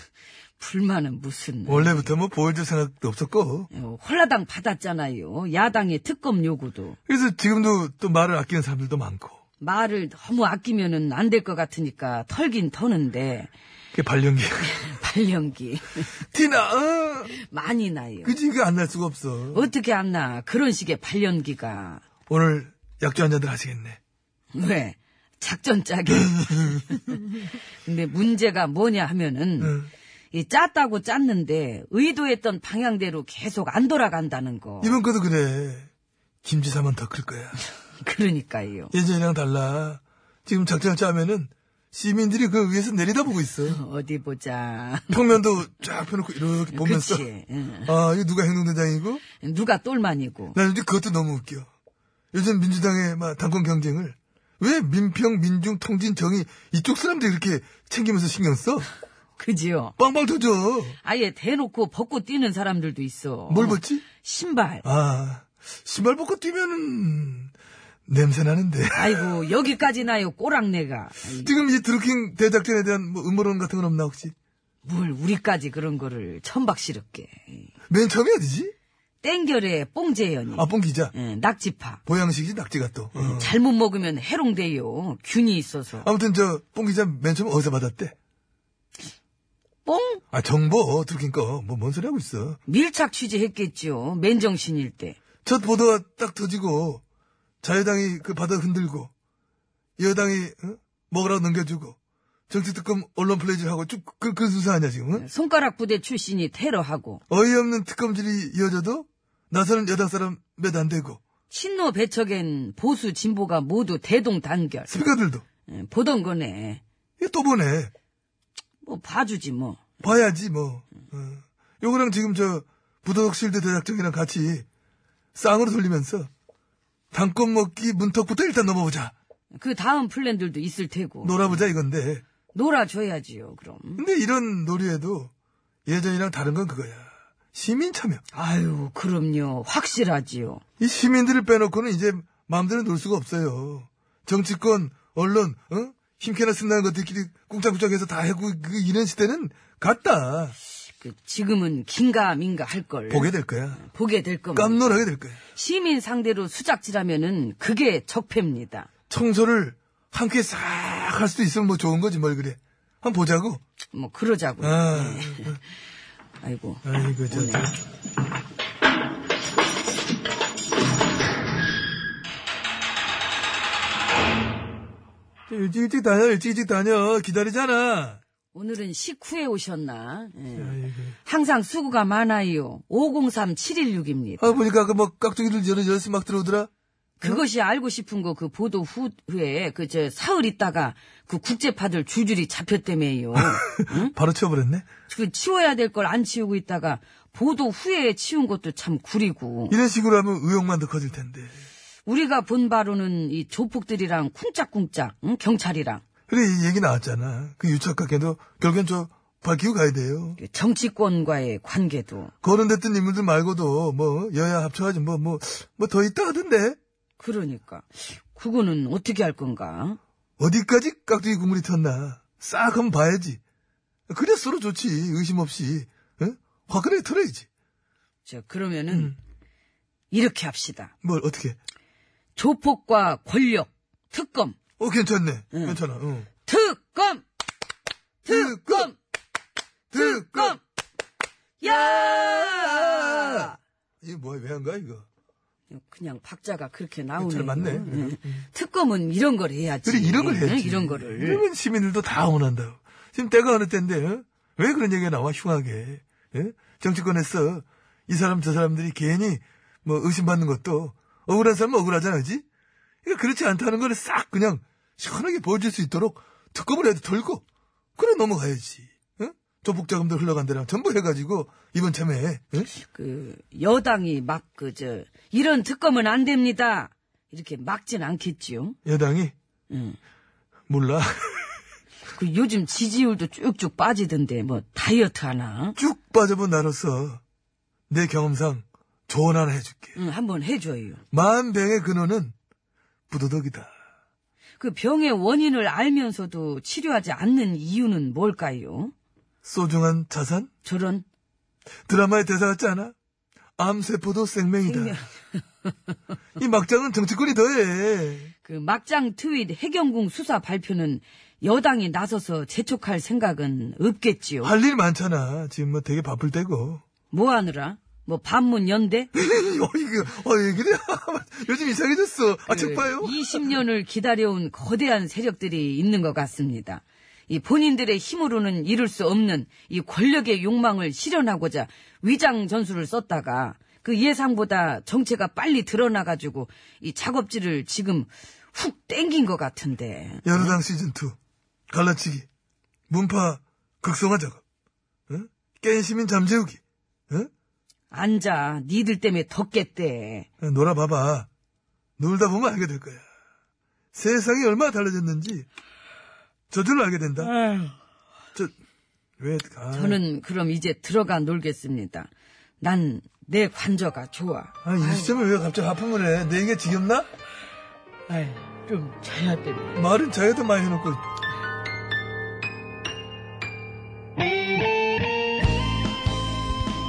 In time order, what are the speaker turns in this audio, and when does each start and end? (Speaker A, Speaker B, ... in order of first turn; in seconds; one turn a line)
Speaker A: 0.6-2.1
Speaker B: 1.7-3.7
Speaker A: 3.7-7.0
Speaker B: 7.1-9.4
Speaker A: 9.6-13.5
Speaker B: 13.9-14.8
Speaker A: 14.7-16.1
Speaker B: 16.3-17.4
Speaker A: 17.3-18.4
Speaker B: 18.2-19.7
Speaker A: 19.5-22.0
Speaker B: 22.3-24.0
Speaker A: 24.5-29.8
Speaker B: 29.6-29.9
Speaker A: 30.3-35.0
Speaker B: 34.8-35.9
Speaker B: 36.4-37.6
Speaker A: 38.0-38.9
Speaker B: 38.9-43.8
Speaker A: 43.7-45.2
Speaker B: 45.1-47.3
Speaker A: 46.7-47.9
Speaker B: 47.9-49.2
Speaker A: 49.4-50.6
Speaker B: 50.5-51.7
Speaker B: 52.3-58.9
Speaker A: 59.4-60.0
Speaker B: 60.0-61.0
Speaker A: 61.0-64.8
Speaker B: 63.5-64.0
Speaker B: 64.8-67.5
Speaker B: 68.1-69.4
Speaker A: 68.9-71.5
Speaker B: 71.4-74.3
Speaker A: 74.8-77.7
Speaker B: 77.9-78.7
Speaker A: 79.2-82.0
Speaker B: 80.5-81.1
Speaker B: 82.1-83.6
Speaker A: 83.2-86.1
Speaker B: 86.0-88.2
Speaker A: 89.9-90.2
Speaker B: 90.3-92.6
Speaker A: 92.7-95.2
Speaker B: 95.5-97.0
Speaker B: 97.6-99.1
Speaker B: 100.0-102.0
Speaker B: 102.5-105.3
Speaker A: 105.2-107.2
Speaker B: 107.3-111.2
Speaker A: 111.5-114.9
Speaker B: 114.9-115.4
Speaker A: 115.7-116.8
Speaker B: 117.2-117.9
Speaker A: 118.8-119.8
Speaker B: 120.0-124.7
Speaker B: 125.3-126.3
Speaker B: 127.1-129.1
Speaker A: 129.5-131.6
Speaker B: 131.2-132.2
Speaker A: 132.5-134.0
Speaker B: 134.0-135.3
Speaker B: 135.9-138.2
Speaker A: 138.3-140.6
Speaker B: 140.8-150.6
Speaker A: 151.0-155.0
Speaker B: 153.1-153.8
Speaker B: 154.5-155.4
Speaker A: 155.6-158.9
Speaker B: 159.1-163.6
Speaker A: 163.9-165.6
Speaker B: 164.6-165.6
Speaker A: 166.4-167.7
Speaker B: 166.8-167.8
Speaker B: 175.5-178.2
Speaker A: 178.5-184.6
Speaker B: 180.6-181.2
Speaker B: 184.4-186.7
Speaker A: 187.2-194.1
Speaker B: 193.4-194.9
Speaker A: 195.1-199.8
Speaker B: 199.7-201.5
Speaker A: 202.1-206.0
Speaker B: 206.3-210.4
Speaker A: 210.4-212.3
Speaker B: 212.4-216.8
Speaker A: 217.2-220.0
Speaker B: 220.4-223.4
Speaker B: 224.1-227.5
Speaker A: 228.3-229.1
Speaker B: 228.9-229.2
Speaker A: 230.1-230.9
Speaker B: 231.0-231.6
Speaker A: 232.4-234.6
Speaker B: 234.8-236.3
Speaker A: 235.5-235.8
Speaker A: 236.4-237.2
Speaker A: 238.2-239.0
Speaker B: 238.3-238.9
Speaker B: 239.9-240.6
Speaker A: 239.9-240.6
Speaker A: 241.6-243.6
Speaker B: 241.6-245.1
Speaker A: 245.7-251.4
Speaker B: 247.2-248.4
Speaker B: 249.8-262.4
Speaker B: 263.1-267.4
Speaker B: 268.0-272.7
Speaker A: 272.7-278.8
Speaker B: 278.9-279.3
Speaker A: 279.7-280.0
Speaker B: 280.7-281.6
Speaker A: 282.1-285.8
Speaker B: 285.8-287.2
Speaker B: 287.9-290.0
Speaker A: 290.0-291.0
Speaker B: 291.1-292.4
Speaker B: 293.1-293.7
Speaker A: 294.6-298.9
Speaker B: 299.4-300.5
Speaker A: 300.6-301.1
Speaker B: 301.9-302.9
Speaker B: 303.6-305.0
Speaker A: 304.6-305.1
Speaker B: 306.4-308.3
Speaker A: 308.4-314.5
Speaker B: 314.4-316.8
Speaker A: 317.1-319.1
Speaker B: 319.1-323.3
Speaker A: 322.5-340.6
Speaker B: 340.2-341.2
Speaker B: 341.7-342.3
Speaker B: 342.9-344.4
Speaker B: 345.1-347.3
Speaker A: 347.9-350.3
Speaker B: 350.4-351.3
Speaker B: 352.0-353.1
Speaker B: 353.9-355.5
Speaker B: 356.5-357.3
Speaker A: 357.2-357.7
Speaker B: 359.2-360.0
Speaker A: 359.7-362.1
Speaker A: 362.6-365.1
Speaker B: 364.6-367.1
Speaker A: 368.1-369.9
Speaker B: 369.8-371.0